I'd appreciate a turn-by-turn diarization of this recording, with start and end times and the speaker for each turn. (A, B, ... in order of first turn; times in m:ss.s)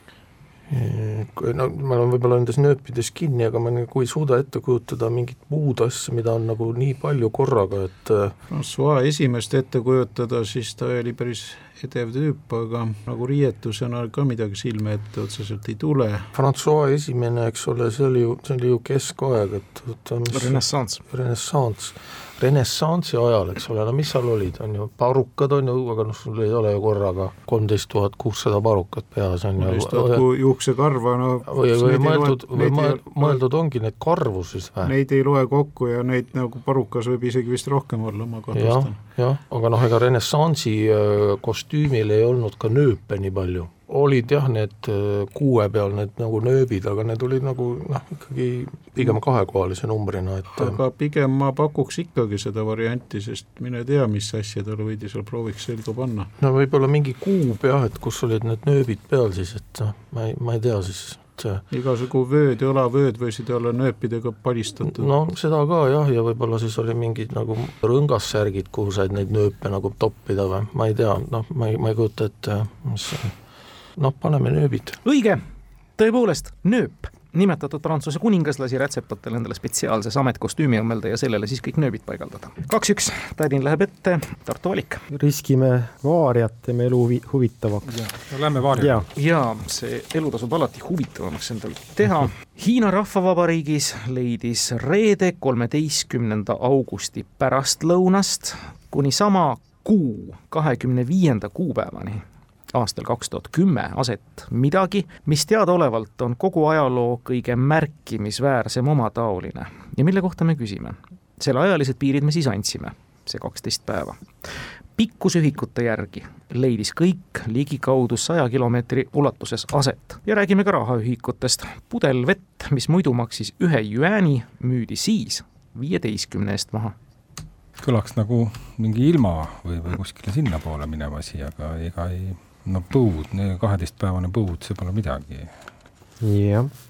0:00.7-0:08.4 A
0:08.5-0:16.3 B
0:16.3-0:30.2 A
0:20.3-0:21.0 C
0:29.6-0:33.4 B
0:31.5-0:34.9 A
0:34.8-0:39.0 B
0:38.5-0:50.8 A
0:50.6-0:56.3 B
0:56.4-1:01.6 A
1:01.7-1:05.1 B
1:04.8-1:13.4 A
1:14.0-1:15.0 A
1:15.0-1:15.4 C
1:16.0-1:25.0 C
1:25.1-1:28.0 D
1:27.9-1:29.1 E
1:28.8-1:29.0 D
1:29.2-2:07.0 C
2:07.8-2:15.5 E
2:16.2-2:16.7 D